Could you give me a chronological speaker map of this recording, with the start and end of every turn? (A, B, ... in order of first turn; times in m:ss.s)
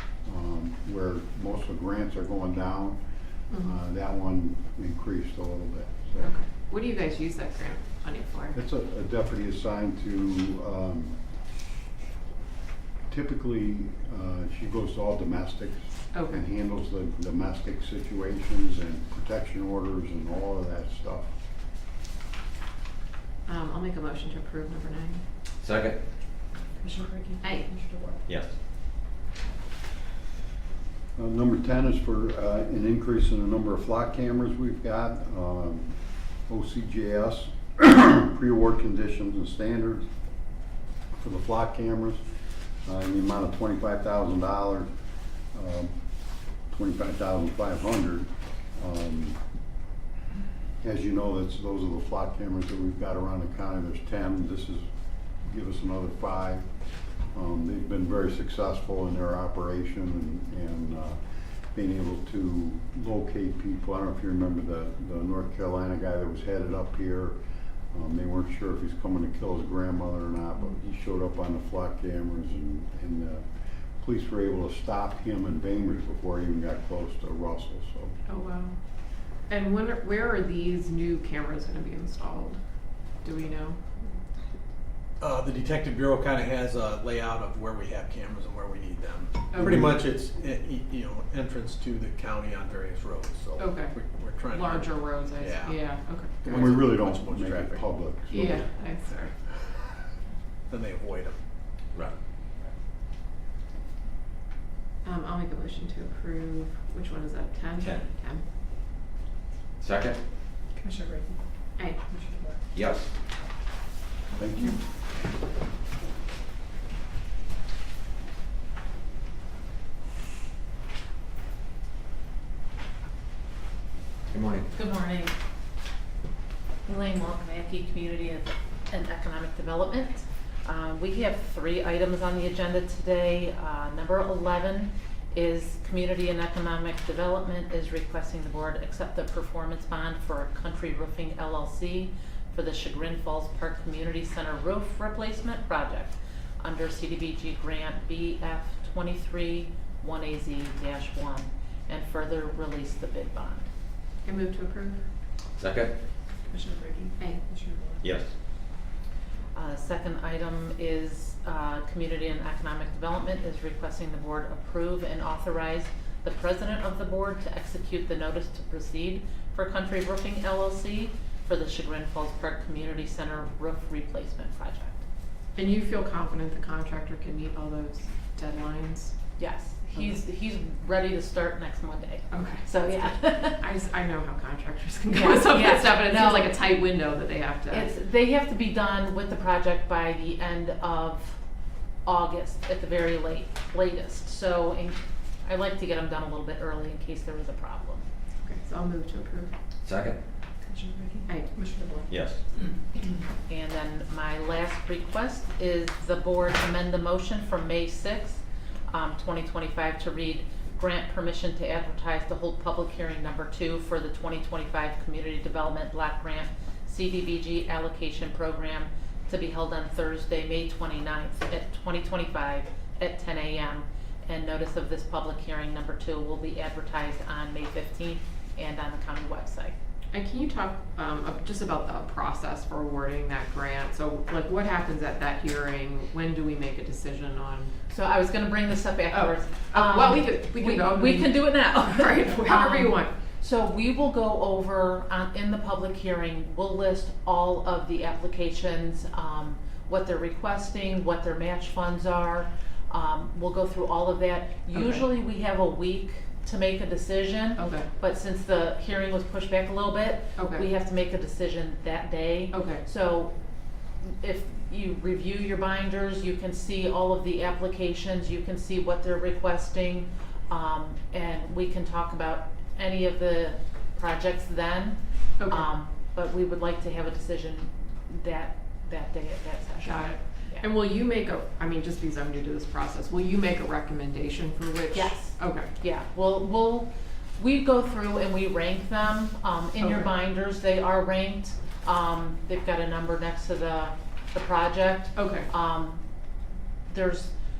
0:00.2-0:03.0 A
0:03.5-0:03.8 B
0:03.6-0:06.3 A
0:06.2-0:08.6 B
0:08.5-0:11.2 A
0:13.1-0:21.3 A
0:16.1-0:16.4 B
0:23.4-0:25.2 B
0:25.6-0:26.0 C
0:26.8-0:28.2 D
0:27.4-0:27.7 B
0:28.3-0:28.5 C
0:31.2-0:36.0 A
0:36.5-0:40.1 A
0:41.2-0:42.2 A
0:42.8-0:44.9 A
0:45.5-0:45.9 A
0:46.7-0:49.4 A
0:50.8-0:54.9 A
0:55.4-0:56.6 A
0:57.3-1:01.2 A
1:01.7-1:07.4 A
1:07.9-1:13.4 A
1:14.0-1:18.2 A
1:18.3-1:18.8 B
1:19.5-1:22.6 B
1:23.2-1:23.8 B
1:25.2-1:35.9 E
1:29.5-1:29.8 B
1:29.6-1:30.0 A
1:33.6-1:36.5 B
1:36.4-1:37.8 E
1:36.4-1:38.6 A
1:38.3-1:39.3 B
1:40.7-1:41.4 E
1:45.0-1:48.4 B
1:47.8-1:48.0 C
1:49.8-1:50.2 C
1:50.8-1:51.4 D
1:52.0-1:52.6 D
1:52.7-1:53.1 C
1:54.4-1:54.8 A
2:04.3-2:04.7 C
2:04.7-2:05.3 F
2:06.9-2:33.7 F
2:34.2-2:35.0 B
2:35.6-2:35.9 C
2:36.5-2:38.0 D
2:38.0-2:38.3 C
2:39.5-2:55.0 F
2:55.6-2:59.1 B
2:59.4-3:03.6 F
3:02.3-3:03.0 B
3:03.6-3:07.9 B
3:05.1-3:06.5 F
3:07.7-3:11.4 F
3:12.0-3:18.0 F
3:18.4-3:19.5 B
3:19.8-3:20.2 C
3:20.6-3:22.1 D
3:22.1-3:22.4 C
3:23.5-3:49.7 F
3:50.1-3:57.7 B
3:57.9-4:23.3 F
3:59.1-4:03.1 B
4:14.7-4:15.1 B
4:17.6-4:17.9 B
4:20.4-4:20.6 B
4:22.5-4:22.8 B
4:24.0-4:40.7 F
4:35.4-4:35.7 B
4:39.8-4:45.7 B
4:44.9-4:56.0 F
4:49.8-4:50.1 B
4:55.2-4:55.5 B
4:56.9-4:57.3 F